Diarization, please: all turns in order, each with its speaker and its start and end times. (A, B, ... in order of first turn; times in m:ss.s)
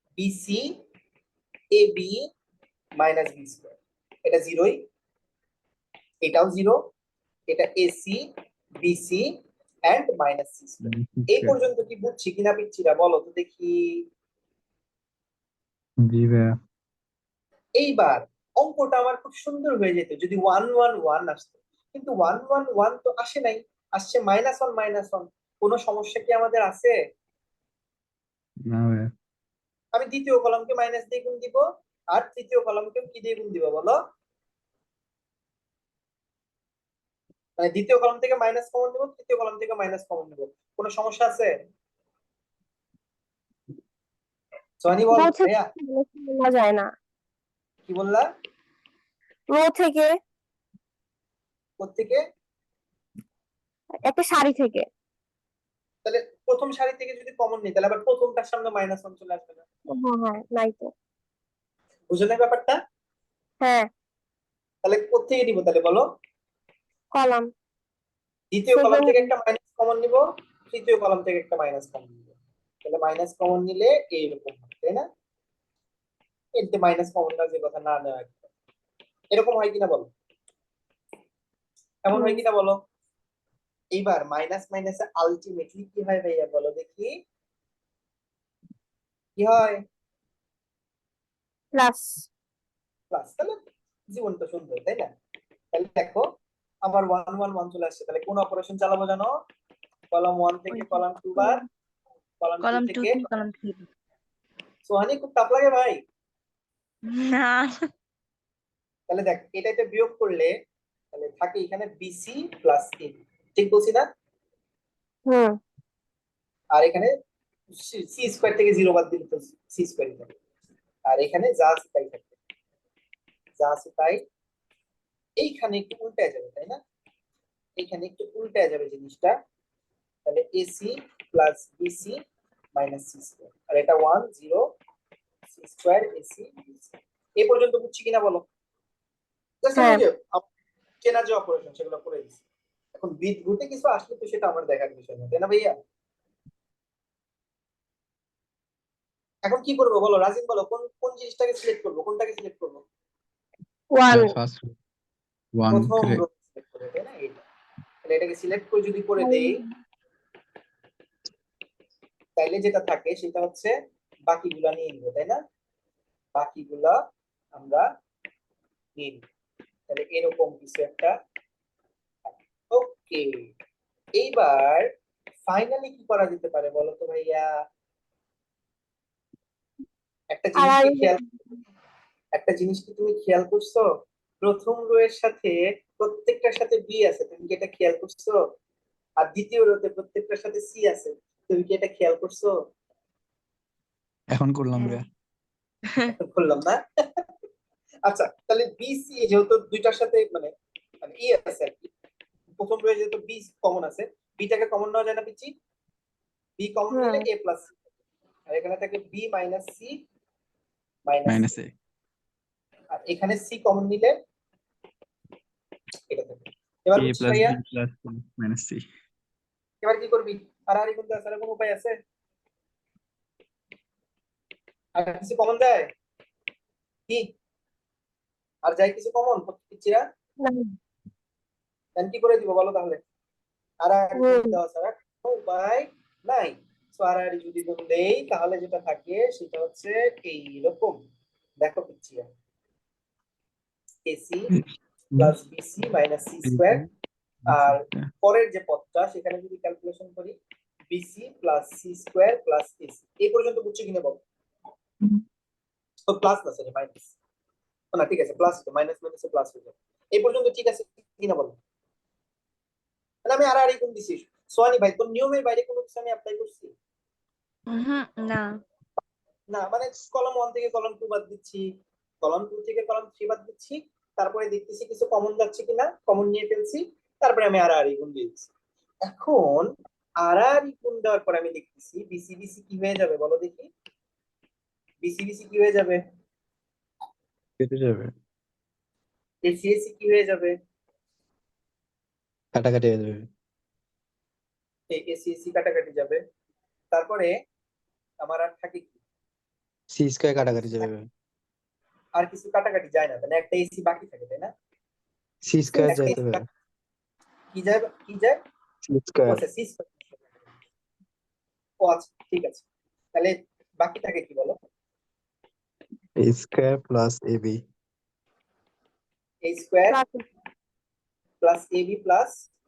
0:00.2-0:00.6 A
0:01.7-0:02.2 A
0:03.0-0:04.8 A
0:06.2-0:06.8 A
0:07.5-0:08.2 A
0:08.8-0:09.3 A
0:09.9-0:13.7 A
0:10.8-0:11.6 B
0:16.0-0:16.6 B
0:17.8-0:27.0 A
0:28.7-0:29.1 B
0:29.9-0:31.6 A
0:32.1-0:34.0 A
0:37.6-0:41.5 A
0:44.8-0:45.7 A
0:45.1-0:46.9 C
0:47.9-0:48.2 A
0:49.5-0:50.1 C
0:51.8-0:52.2 A
0:54.1-0:54.8 C
0:56.0-0:59.6 A
0:59.9-1:00.9 C
1:02.1-1:02.8 A
1:04.8-1:06.0 A
1:07.1-1:07.5 C
1:08.5-1:12.2 A
1:08.8-1:09.3 C
1:12.8-1:15.0 A
1:16.6-1:18.4 A
1:19.3-1:20.1 A
1:22.0-1:22.8 A
1:22.1-1:22.4 C
1:23.9-1:27.2 A
1:29.4-1:29.8 A
1:31.8-1:32.2 C
1:33.1-1:33.6 A
1:34.1-1:35.1 A
1:35.7-1:36.2 A
1:36.8-1:39.3 A
1:40.1-1:41.6 A
1:40.7-1:41.7 D
1:42.4-1:43.2 A
1:42.6-1:43.9 D
1:44.9-1:46.0 A
1:47.1-1:47.8 D
1:49.1-1:50.5 A
1:51.1-1:54.0 A
1:55.3-1:55.6 C
1:56.7-1:57.1 A
1:57.7-2:00.3 A
2:01.1-2:02.3 A
2:03.6-2:04.2 A
2:05.4-2:06.8 A
2:07.8-2:09.4 A
2:10.3-2:12.2 A
2:12.7-2:14.6 A
2:15.5-2:18.4 A
2:19.6-2:20.4 A
2:21.0-2:22.4 A
2:22.9-2:25.7 A
2:29.4-2:32.8 A
2:34.0-2:34.4 C
2:34.1-2:34.7 B
2:35.6-2:36.2 B
2:35.7-2:37.4 A
2:38.0-2:39.6 A
2:39.2-2:39.7 C
2:42.4-2:43.7 A
2:44.3-2:45.4 A
2:46.4-2:47.0 A
2:47.5-2:47.9 A
2:49.0-2:49.2 A
2:49.9-2:51.1 A
2:52.2-2:53.2 A
2:54.2-2:54.9 A
2:55.5-2:57.5 A
3:00.3-3:01.2 A
3:00.6-3:01.6 C
3:02.4-3:03.8 A
3:04.4-3:08.4 A
3:09.2-3:12.5 A
3:14.3-3:15.0 B
3:15.9-3:16.1 D
3:16.2-3:17.2 A
3:18.1-3:20.5 A
3:21.0-3:21.9 A
3:22.6-3:25.5 A
3:26.6-3:27.7 A
3:26.9-3:27.3 C
3:28.5-3:30.0 A
3:31.1-3:31.5 A
3:31.2-3:31.7 B
3:32.9-3:34.2 A
3:36.1-3:37.6 A
3:37.0-3:38.9 B
3:39.8-3:42.0 A
3:45.0-3:45.9 A
3:48.6-3:50.0 A
3:50.4-3:50.8 C
3:52.0-3:53.0 A
3:53.8-4:01.0 A
3:54.2-3:54.6 C
4:01.6-4:02.3 A
4:04.1-4:04.5 A
4:05.2-4:06.8 A
4:06.4-4:06.9 B
4:07.4-4:08.1 B
4:07.5-4:10.4 A
4:10.9-4:14.2 A
4:16.1-4:17.0 A
4:17.9-4:21.6 A
4:23.2-4:26.7 A
4:27.7-4:28.4 D
4:29.5-4:31.6 A
4:32.2-4:38.5 A
4:39.0-4:39.7 A
4:40.2-4:43.7 A
4:45.0-4:46.0 A
4:47.6-4:48.1 B
4:49.4-4:50.5 A
4:52.6-4:53.3 B
4:54.9-4:56.2 A
4:56.9-4:57.3 A
4:58.2-4:58.9 A
4:59.9-5:01.1 B
5:02.2-5:04.5 A
5:05.4-5:06.4 B
5:05.7-5:06.4 A
5:07.5-5:08.4 A
5:08.8-5:09.4 B
5:09.3-5:10.3 A
5:11.8-5:12.6 A
5:13.1-5:14.6 A
5:16.2-5:17.6 B
5:19.4-5:20.0 A
5:19.9-5:20.2 C
5:21.4-5:22.4 A